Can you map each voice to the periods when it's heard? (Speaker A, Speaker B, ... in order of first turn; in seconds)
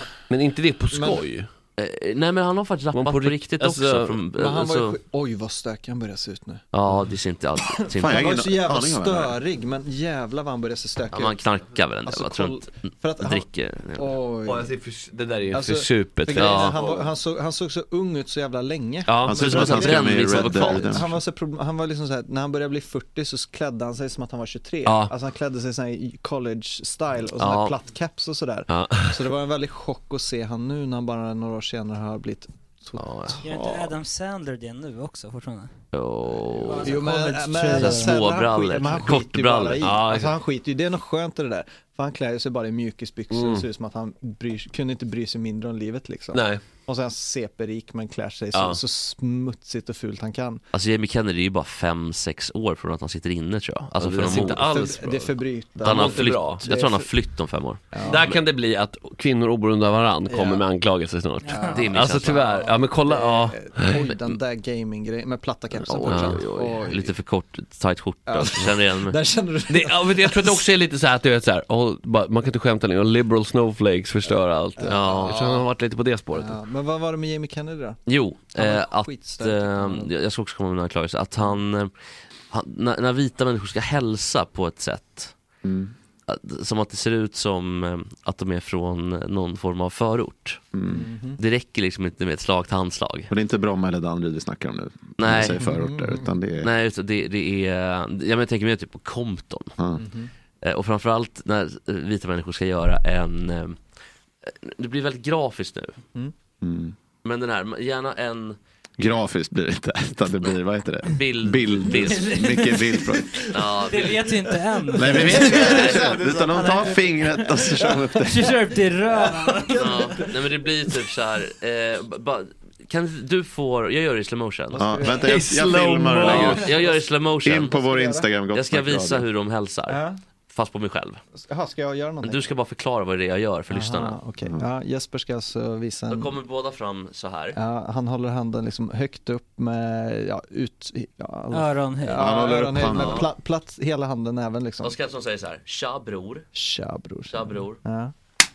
Speaker A: 0.3-1.5, 2.9-4.2, 14.4-17.1, 19.1-19.6, 24.9-25.1, 28.7-29.2, 39.8-40.4, 43.3-43.6, 46.3-46.6, 48.5-48.8, 54.0-56.6, 58.0-64.0, 65.9-66.8, 69.7-76.6, 125.2-126.5
Speaker B: 0.9-1.2, 4.4-6.6, 7.9-11.4, 12.1-14.8, 15.5-33.9, 36.7-50.6, 54.3-57.1, 57.9-58.4, 60.3-60.6, 61.5-67.1, 68.3-70.6, 74.8-75.7, 76.3-78.0, 78.6-80.1, 90.9-91.4, 95.6-96.3, 100.0-100.3, 115.0-117.1, 117.7-118.1, 119.1-120.3, 124.7-128.3, 129.9-130.2, 131.4-132.5, 133.7-136.3, 137.5-144.9, 146.6-148.1
Speaker C: 1.8-5.0, 6.7-8.3, 11.1-14.2, 16.3-16.8, 19.4-21.0, 27.4-27.7, 33.0-33.4, 35.9-37.0, 37.7-39.9, 50.7-54.7, 55.8-58.3, 61.7-62.4, 66.0-69.2, 74.8-75.5, 78.1-81.9, 82.5-85.3, 86.3-90.6, 91.4-93.3, 95.2-95.7, 96.6-99.7, 100.6-103.8, 104.5-106.0, 107.2-108.6, 111.0-112.4, 113.5-114.3, 115.1-116.2, 119.8-124.8, 126.2-127.7, 128.5-131.2, 132.2-134.2, 136.1-137.6, 142.9-143.3, 144.8-146.5, 147.3-147.8
Speaker D: 8.0-9.4, 19.2-21.2, 85.6-85.9, 90.7-91.1, 93.3-96.7, 106.6-106.9, 109.0-113.6, 114.9-118.6, 124.8-126.7, 127.4-129.3, 142.1-143.3
Speaker E: 33.4-35.7, 36.6-38.2, 61.4-61.7, 112.1-113.2, 113.9-115.8, 116.5-120.3, 141.5-142.5